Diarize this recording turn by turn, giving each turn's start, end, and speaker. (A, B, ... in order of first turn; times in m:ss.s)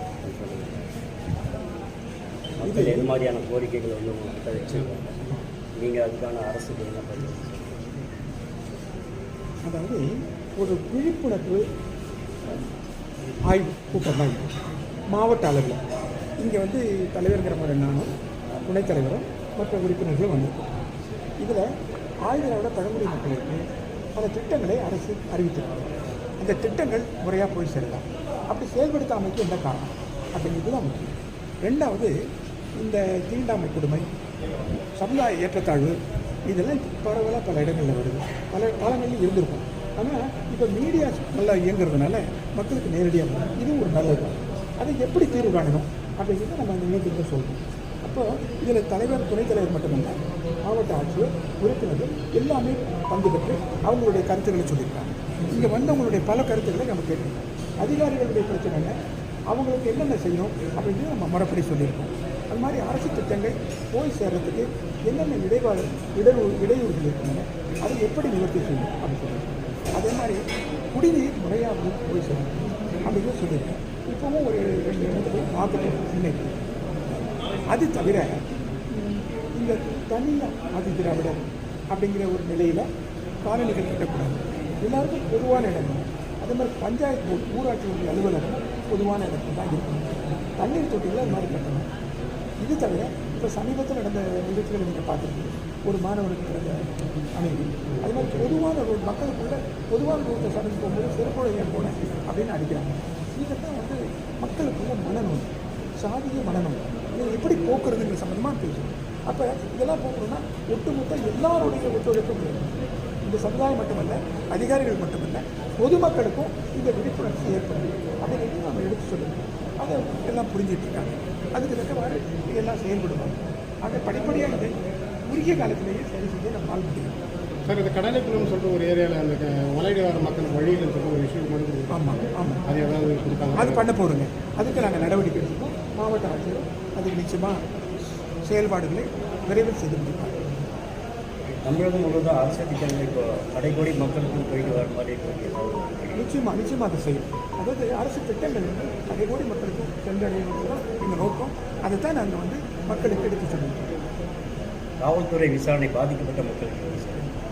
0:00.2-0:00.9 A
0:02.6-0:08.1 A
0:02.6-0:03.1 B
0:09.6-0:11.6 B
0:13.5-0:14.5 B
0:15.1-0:15.8 B
0:16.4-0:18.1 B
0:18.6-0:20.6 B
0:21.4-0:21.7 B
0:22.3-0:23.6 B
0:24.2-0:32.1 B
0:32.8-0:34.0 B
0:35.0-0:36.0 B
0:36.5-0:59.0 B
0:59.5-1:10.4 B
1:10.9-1:16.6 B
1:17.7-1:18.4 B
1:18.9-1:21.4 B
1:21.9-1:22.8 B
1:23.4-1:31.9 B
1:32.6-1:36.8 B
1:37.4-2:04.7 B
2:05.3-2:07.2 B
2:07.6-2:13.9 C
2:11.9-2:12.6 B
2:13.5-2:17.6 B
2:18.4-2:20.4 B
2:21.6-2:26.2 A
2:26.2-2:33.9 B
2:35.0-2:37.3 A